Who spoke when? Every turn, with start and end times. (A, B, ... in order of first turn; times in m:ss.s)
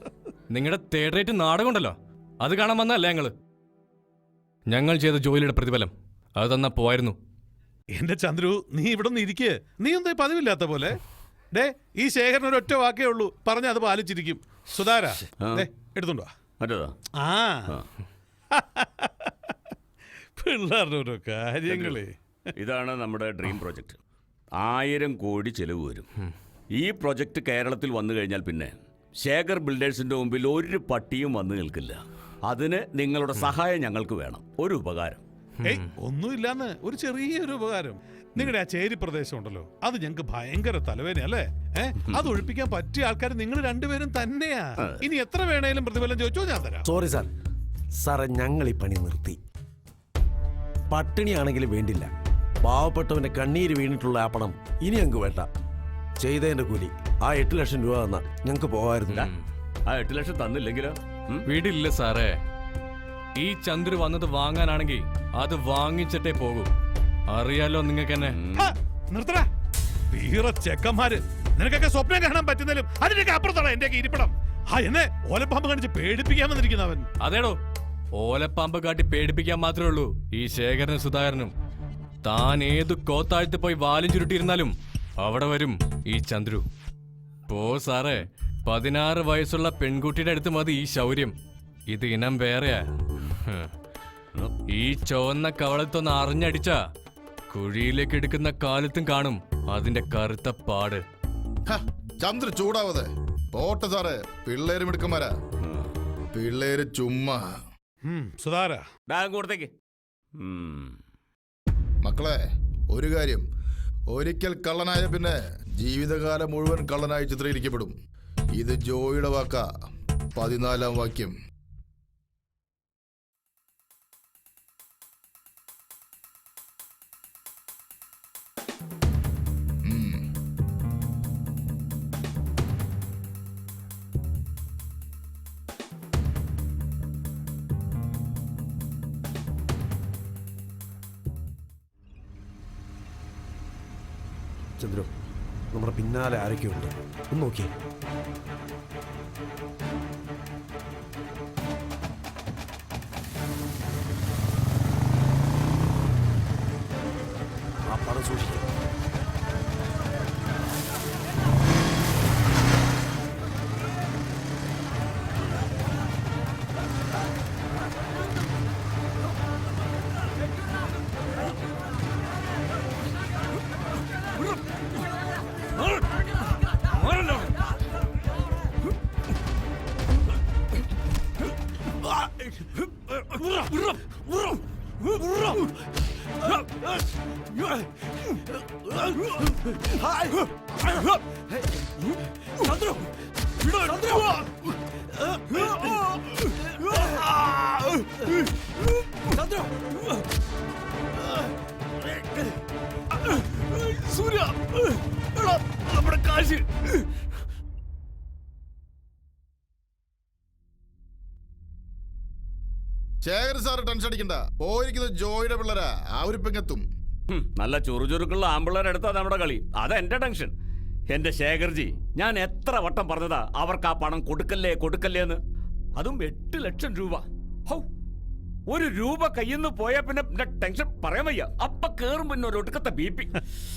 0:00.5-0:03.3 A
0:04.7-0:07.2 A
0:07.9-0:11.0 B
0:11.5-0:16.3 B
0:15.4-0:15.7 C
0:16.6-0:16.9 C
0:17.2-0:17.7 B
0:18.5-0:19.5 B
0:20.4-0:22.1 B
0:21.7-0:22.0 C
0:22.6-0:24.0 C
0:24.6-0:26.0 C
0:26.8-0:35.2 C
0:35.6-0:35.9 A
0:35.6-0:46.9 B
0:42.1-0:42.4 C
0:44.8-0:45.0 C
0:46.9-0:47.3 D
0:48.0-0:49.4 D
0:50.9-0:52.1 D
0:52.6-0:55.5 D
0:56.2-0:59.2 D
0:59.1-0:59.4 A
0:59.8-1:01.4 C
1:01.4-1:02.4 A
1:03.4-1:06.7 A
1:07.3-1:08.4 A
1:08.3-1:08.7 C
1:08.5-1:09.5 B
1:10.1-1:17.1 B
1:17.2-1:17.6 A
1:18.2-1:21.5 A
1:22.2-1:26.6 A
1:27.5-1:31.3 A
1:31.9-1:32.8 A
1:34.7-1:36.7 A
1:37.5-1:41.0 A
1:41.7-1:45.3 E
1:45.6-1:45.9 C
1:46.3-1:47.4 E
1:48.0-1:48.8 B
1:49.1-1:49.7 C
1:50.4-1:50.9 C
1:52.0-1:52.4 E
1:52.9-1:53.4 E
1:54.1-1:57.9 E
1:58.6-1:59.7 E
2:00.3-2:01.4 E
2:09.8-2:10.2 E
2:24.8-2:25.1 D
2:25.7-2:27.7 D
2:37.9-2:38.6 D
3:13.8-3:14.2 A
3:17.4-3:18.3 A
3:23.5-3:24.8 A
3:25.4-3:26.9 A
3:33.2-3:36.8 E
3:37.3-3:40.5 C
3:41.1-3:45.4 C
3:46.0-3:47.8 C
3:48.7-3:53.3 C